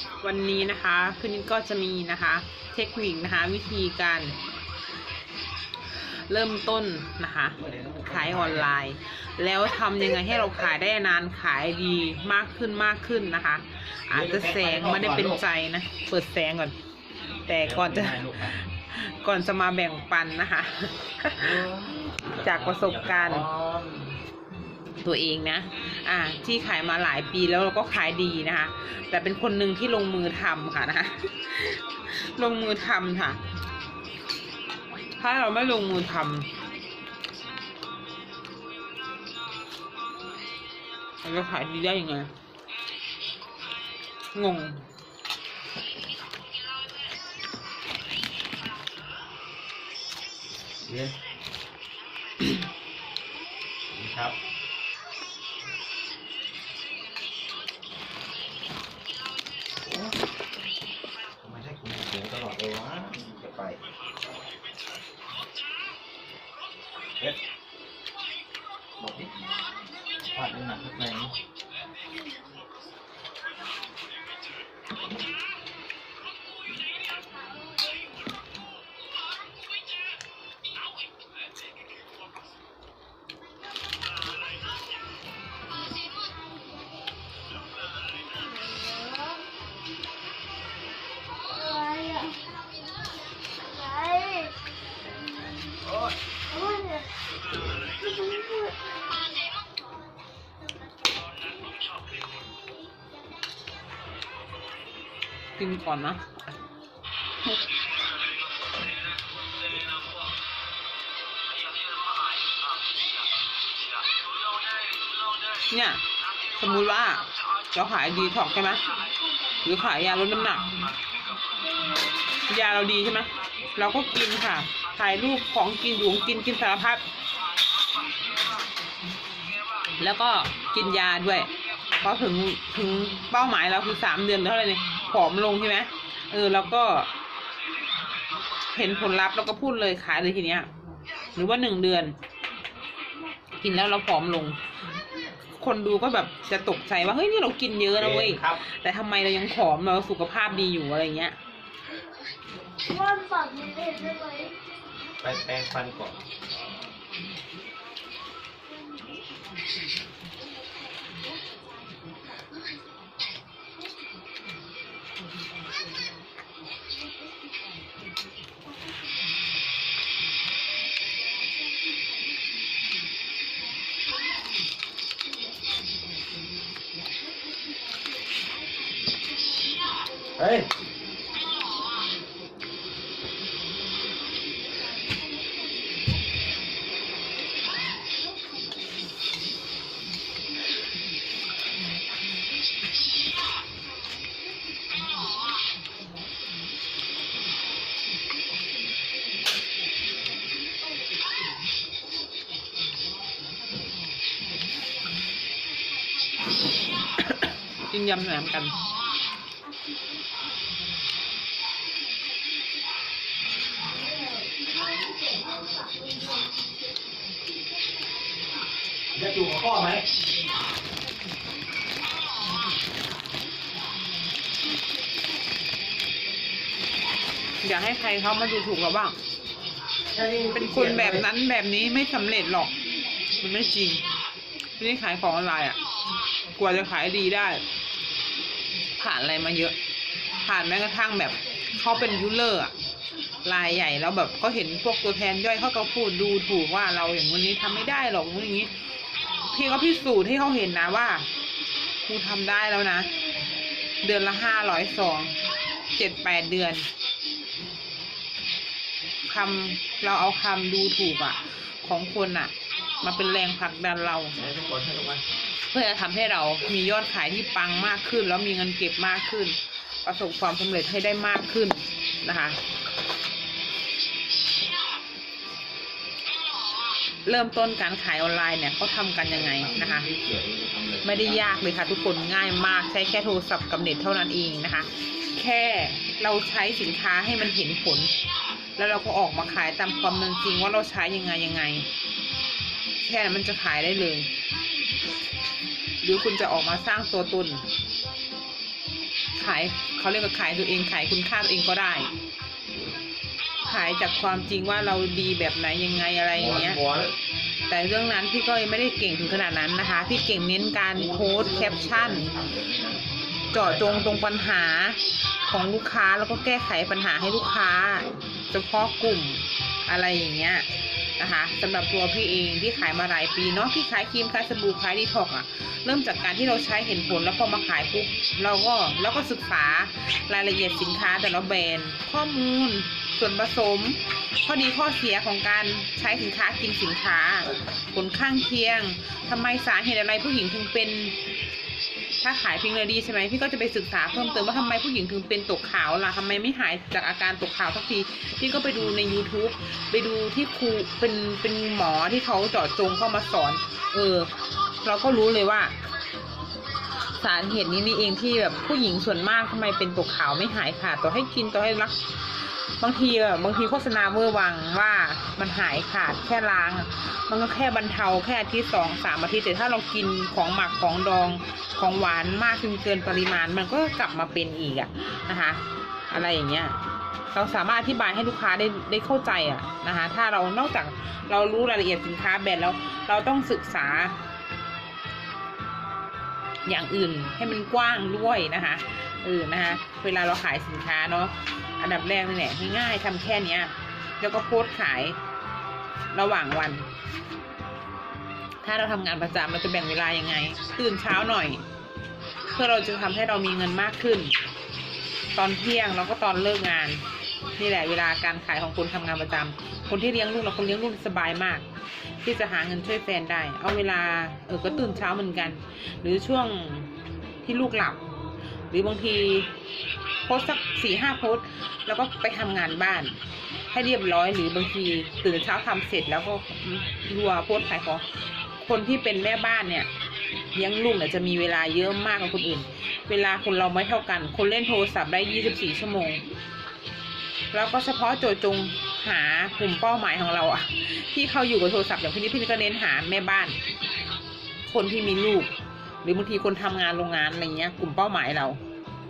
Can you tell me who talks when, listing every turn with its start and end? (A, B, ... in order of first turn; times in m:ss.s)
0:00.2-0:04.4 A
0:05.9-0:16.8 A
0:07.6-0:08.7 B
0:14.1-0:15.4 B
0:17.5-0:21.6 A
0:17.6-0:18.6 B
0:21.4-0:24.2 B
0:22.4-0:23.5 A
0:25.0-0:33.4 A
0:35.2-0:36.5 A
0:41.2-0:42.3 A
0:44.3-0:44.9 A
0:50.8-0:51.2 B
0:53.9-0:54.4 B
0:59.8-1:00.2 B
1:01.4-1:03.8 B
1:09.0-1:09.3 B
1:10.3-1:11.3 B
1:28.7-1:29.3 C
1:31.6-1:32.4 C
1:33.8-1:34.5 C
1:36.5-1:37.1 C
1:38.0-1:38.9 C
1:45.6-1:46.4 A
1:55.7-1:58.8 A
1:59.6-2:00.7 A
2:02.5-2:07.0 A
2:10.0-2:17.1 A
2:18.7-2:20.7 A
2:21.4-2:22.2 A
2:23.6-2:24.6 A
2:25.5-2:31.4 A
2:28.0-2:28.6 B
2:32.9-2:34.5 C
2:35.2-2:36.2 B
3:00.4-3:00.7 B
3:27.9-3:28.8 A
3:34.1-3:34.5 C
3:39.2-3:40.0 B
3:47.6-3:49.2 A
3:50.1-3:51.3 B
3:50.5-3:52.7 A
3:53.4-3:54.0 A
3:54.8-3:55.8 A
3:56.6-3:57.6 A
3:59.0-3:59.8 A
4:00.4-4:02.7 A
4:03.4-4:08.7 A
4:09.5-4:11.3 A
4:12.0-4:13.1 A
4:14.0-4:15.4 A
4:15.9-4:16.9 A
4:19.3-4:24.4 A
4:24.4-4:25.2 B
4:25.7-4:32.6 A
4:37.3-4:40.1 A
4:39.3-4:41.5 B
4:41.0-4:48.1 A
4:48.8-4:51.9 A
4:53.0-4:54.3 A
4:56.0-4:57.7 A
4:59.4-5:02.1 A
5:03.7-5:06.8 A
5:06.3-5:07.1 B
5:07.7-5:12.4 A
5:10.9-5:14.2 B
5:13.5-5:20.7 A
5:21.2-5:41.2 A
5:42.2-5:54.3 A
5:54.8-5:55.8 A
5:57.1-6:02.1 A
6:02.8-6:16.8 A
6:17.3-6:24.2 A
6:26.7-6:35.2 A
6:36.1-6:36.9 A
6:38.6-6:41.6 A
6:42.5-6:44.3 A
6:45.3-6:47.1 A
6:47.6-6:51.7 A
6:52.2-6:56.9 A
6:57.4-6:58.0 A
6:58.7-6:59.5 A
7:00.2-7:03.2 A
7:03.7-7:09.9 A
7:10.6-7:16.2 A
7:17.5-7:23.6 A
7:24.7-7:25.5 A
7:26.0-7:28.6 A